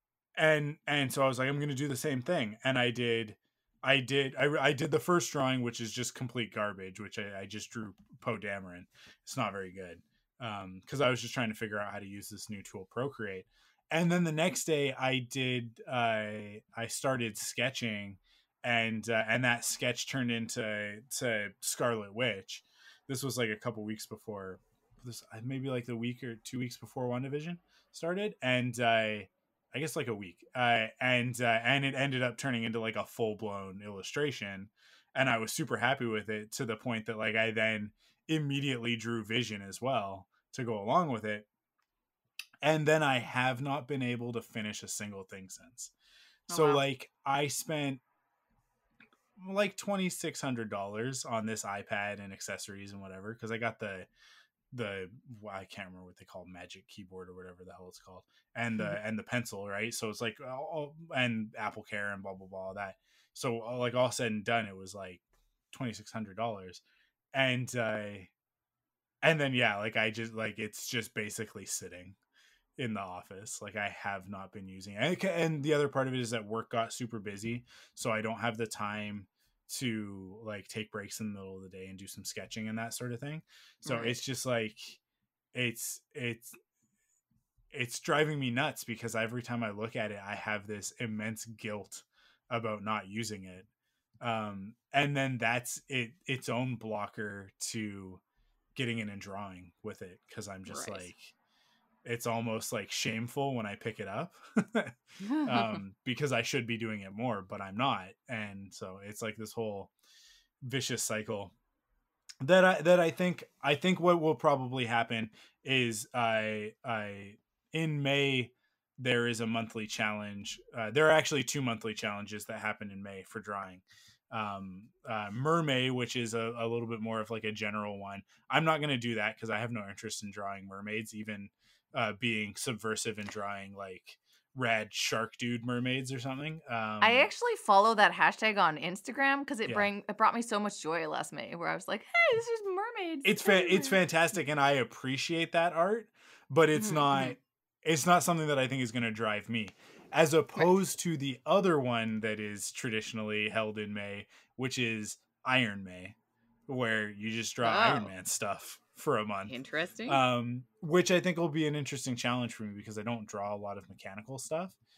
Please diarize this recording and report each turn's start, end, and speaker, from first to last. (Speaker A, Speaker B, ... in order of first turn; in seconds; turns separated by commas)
Speaker A: 0.3-41.5, Speaker A: 42.6-45.9, Speaker B: 46.5-46.8, Speaker A: 46.5-48.0, Speaker A: 49.4-54.1, Speaker A: 54.7-66.8, Speaker A: 67.3-68.3, Speaker A: 69.2-72.2, Speaker A: 72.8-85.0, Speaker B: 83.8-84.2, Speaker A: 85.5-86.5, Speaker A: 87.7-93.7, Speaker A: 94.2-98.2, Speaker A: 98.7-101.3, Speaker B: 100.7-101.1, Speaker A: 102.0-109.9, Speaker B: 105.2-105.8, Speaker A: 110.6-111.5, Speaker A: 112.4-137.3, Speaker B: 137.0-144.0, Speaker A: 143.2-156.2, Speaker B: 146.8-147.3, Speaker A: 156.7-159.5, Speaker B: 157.6-158.1, Speaker B: 159.5-160.2, Speaker A: 160.1-164.8